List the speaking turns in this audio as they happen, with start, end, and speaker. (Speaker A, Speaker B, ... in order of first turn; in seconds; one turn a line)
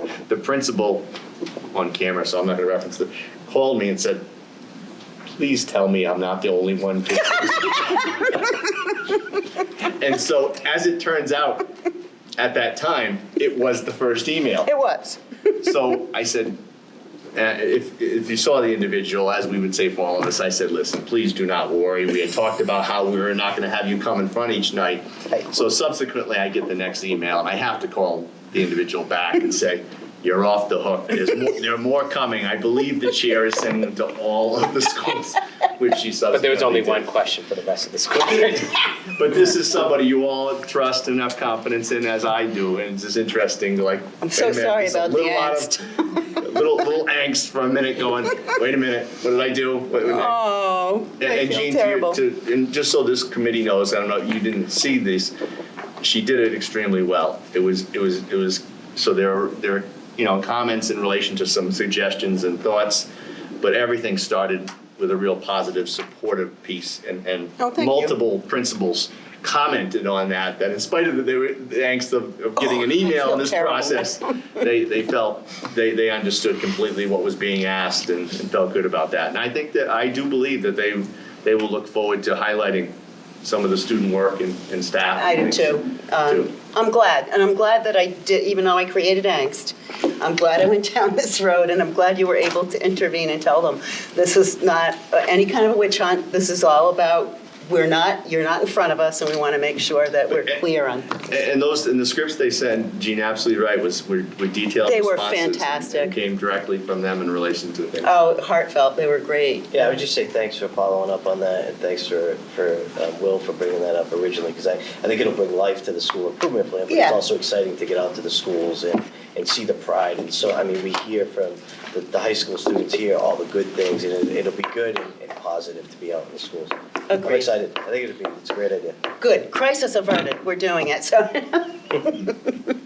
Speaker A: 0.3-1.1
Speaker A: 1.7-4.3
Speaker A: 5.4-8.4
Speaker A: 9.8-11.7
Speaker A: 12.4-14.7
Speaker B: 14.7-15.2
Speaker A: 15.6-16.6
Speaker A: 17.4-37.1
Speaker C: 36.3-38.8
Speaker A: 39.1-50.4
Speaker B: 44.2-46.2
Speaker B: 50.0-52.2
Speaker A: 51.2-55.4
Speaker A: 56.0-63.1
Speaker A: 63.6-85.7
Speaker B: 67.6-68.2
Speaker B: 72.6-74.5
Speaker B: 85.1-101.3
Speaker A: 86.2-86.5
Speaker A: 100.4-100.6
Speaker A: 101.2-108.1
Speaker B: 104.9-106.2
Speaker B: 108.0-109.8
Speaker D: 109.7-129.0
Speaker B: 116.9-117.2
Speaker B: 127.1-127.5
Speaker B: 129.2-132.7